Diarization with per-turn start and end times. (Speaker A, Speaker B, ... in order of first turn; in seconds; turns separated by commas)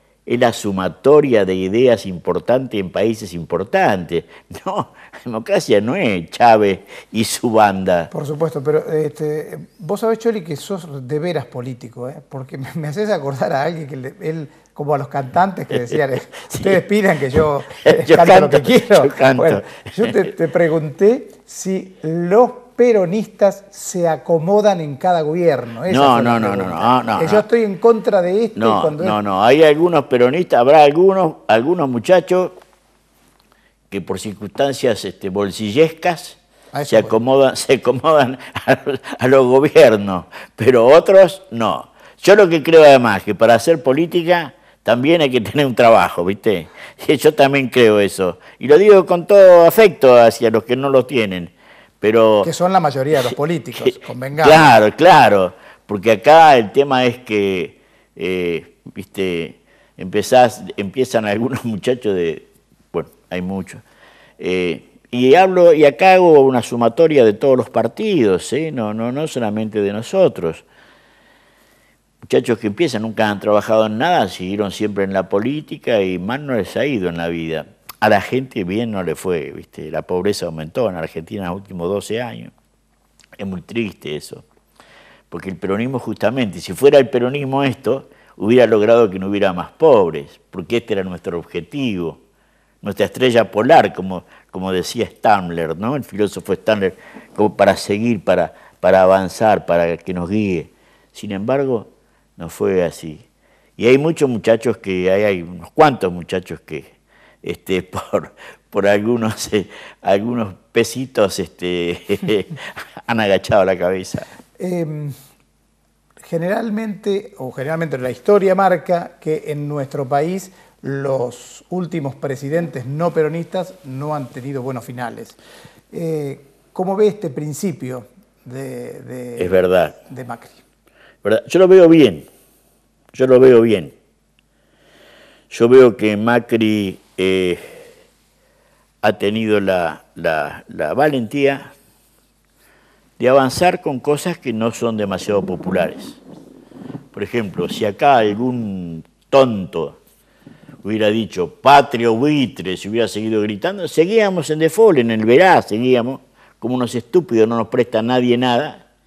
Speaker A: 0.3-8.1, Speaker B: 8.1-29.2, Speaker A: 15.7-16.8, Speaker A: 17.7-20.3, Speaker A: 25.9-27.4, Speaker A: 28.6-32.6, Speaker A: 33.9-52.5, Speaker B: 36.7-37.2, Speaker B: 52.4-54.7, Speaker A: 53.3-63.8, Speaker A: 64.4-70.7, Speaker A: 72.2-82.5, Speaker A: 83.4-84.5, Speaker A: 85.3-92.2, Speaker A: 92.8-103.2, Speaker A: 103.8-106.9, Speaker A: 107.4-114.3, Speaker B: 114.6-115.2, Speaker B: 116.2-125.4, Speaker B: 125.9-130.6, Speaker A: 129.4-130.0, Speaker A: 131.2-132.3, Speaker A: 133.1-133.9, Speaker A: 135.5-137.9, Speaker A: 139.0-141.7, Speaker A: 143.2-146.2, Speaker A: 147.1-150.0, Speaker A: 150.8-158.8